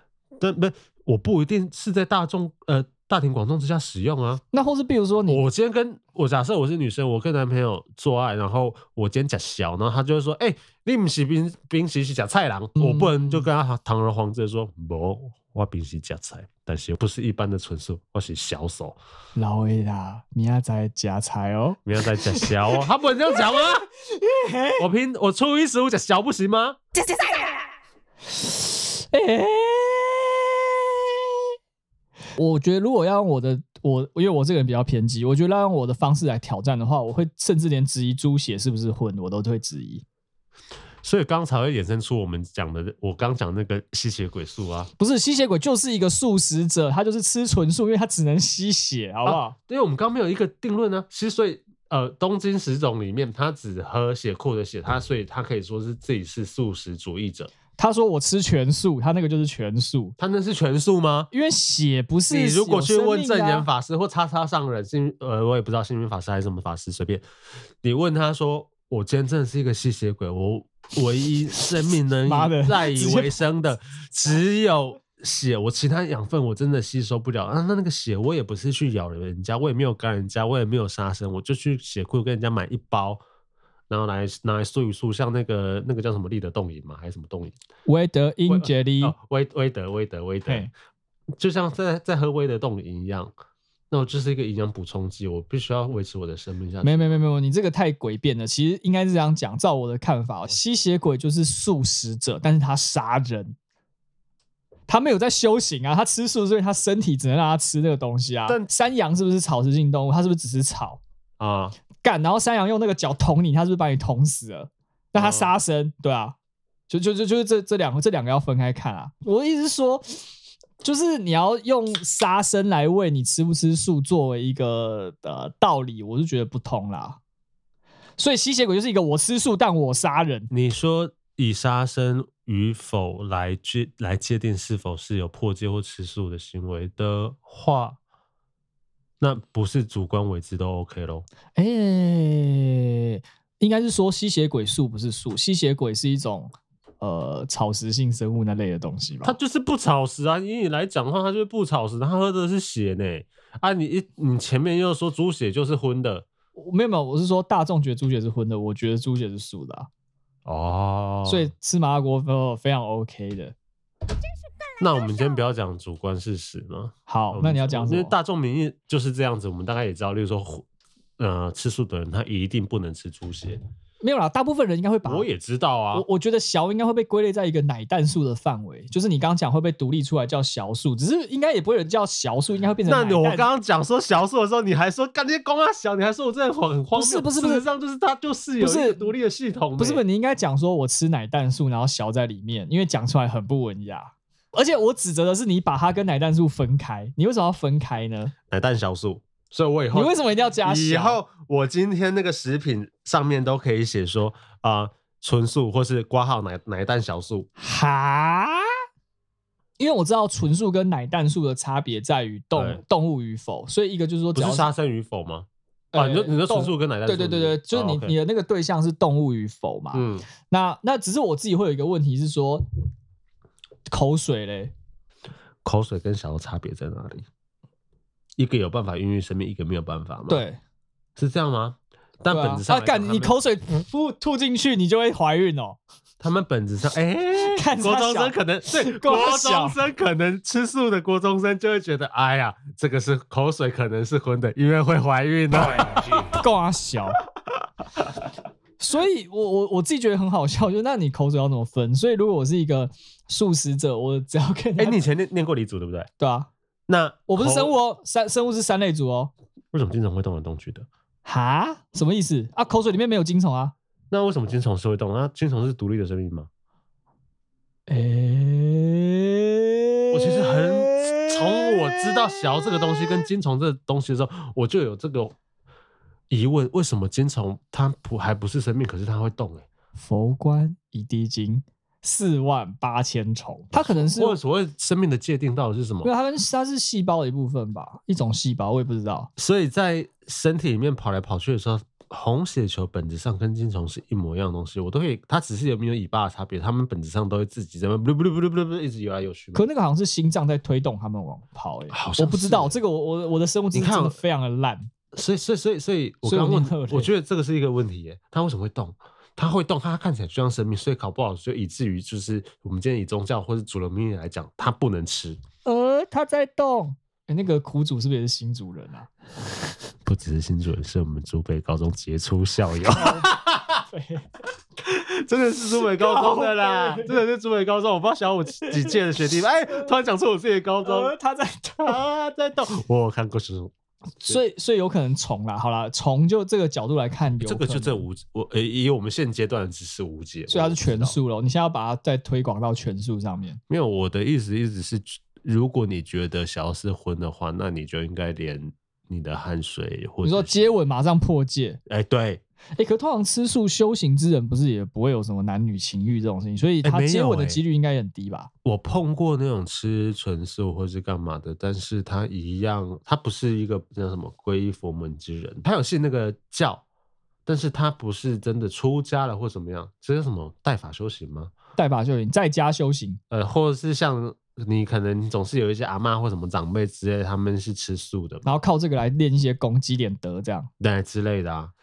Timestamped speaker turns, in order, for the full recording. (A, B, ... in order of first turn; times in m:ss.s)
0:00.4-0:04.4 A
0:04.5-0:05.4 B
0:05.3-0:19.0 A
0:12.8-0:13.5 B
0:19.4-0:22.9 B
0:21.8-0:23.9 A
0:24.1-0:24.8 B
0:24.8-0:26.8 A
0:28.4-0:31.2 B
0:32.4-0:40.0 B
0:41.0-0:44.9 A
0:45.0-0:49.6 B
0:49.2-0:57.5 A
0:57.8-1:00.2 B
1:00.2-1:01.3 A
1:01.3-1:03.7 B
1:02.3-1:07.2 A
1:07.8-1:23.2 A
1:12.2-1:13.4 B
1:23.9-1:27.6 A
1:27.9-1:29.2 B
1:28.5-1:30.7 A
1:31.4-1:33.3 A
1:33.9-1:37.2 A
1:36.8-1:43.6 B
1:44.9-1:51.0 B
1:51.4-1:51.7 A
1:52.0-1:56.4 B
1:55.2-1:55.5 A
1:56.9-2:00.2 B
2:00.8-2:07.2 B
2:08.2-2:10.5 B
2:10.5-2:18.0 A
2:19.2-2:21.2 A
2:21.6-2:29.4 B
2:29.2-2:36.3 A
2:36.6-2:39.9 B
2:40.5-2:41.5 A
2:41.3-2:43.5 B
2:44.8-2:50.7 A
2:47.1-2:48.1 B
2:51.2-2:53.6 A
2:54.0-2:55.3 B
2:55.0-2:56.1 A
2:55.9-3:03.5 B
3:02.8-3:10.0 A
3:06.9-3:07.7 B
3:08.6-3:09.1 B
3:09.8-3:18.3 B
3:18.5-3:27.5 A
3:19.9-3:21.2 B
3:27.6-3:28.7 B
3:29.8-3:34.7 B
3:32.6-3:32.8 A
3:34.4-3:38.1 A
3:35.9-3:42.6 B
3:39.9-3:40.3 A
3:43.9-3:44.7 B
3:45.6-3:47.3 A
3:48.4-3:50.4 A
3:50.3-3:50.6 B
3:51.2-3:53.4 A
3:52.3-3:55.8 B
3:56.2-4:06.4 A
3:57.3-3:59.8 B
4:06.3-4:07.2 B
4:08.8-4:15.0 B
4:14.8-4:16.1 A
4:16.2-4:16.5 B
4:16.9-4:17.7 A
4:17.3-4:19.3 B
4:19.7-4:20.9 A
4:21.2-4:23.8 B
4:24.1-4:26.5 A
4:27.9-4:32.8 B
4:30.1-4:35.4 A
4:36.3-4:39.7 A
4:40.0-4:44.4 B
4:43.7-4:46.1 A
4:46.0-4:49.3 B
4:49.4-4:59.6 A
4:59.5-5:04.9 B
5:01.9-5:02.8 A
5:03.7-5:04.2 A
5:05.1-5:15.4 A
5:06.2-5:07.1 B
5:15.6-5:19.1 B
5:20.0-5:23.8 A
5:23.0-5:23.3 B
5:23.9-5:24.3 B
5:24.8-5:31.2 A
5:26.0-5:27.2 B
5:30.8-5:32.0 B
5:31.8-5:34.4 A
5:34.2-5:38.0 B
5:37.4-5:41.2 A
5:40.5-5:43.6 B
5:43.7-5:50.7 A
5:50.2-5:51.8 B
5:51.9-5:52.4 A
5:52.8-5:58.5 B
5:56.8-5:57.6 A
5:58.6-6:06.8 A
6:07.5-6:11.5 A
6:11.8-6:13.2 B
6:13.3-6:18.5 A
6:18.4-6:20.7 B
6:20.8-6:21.7 A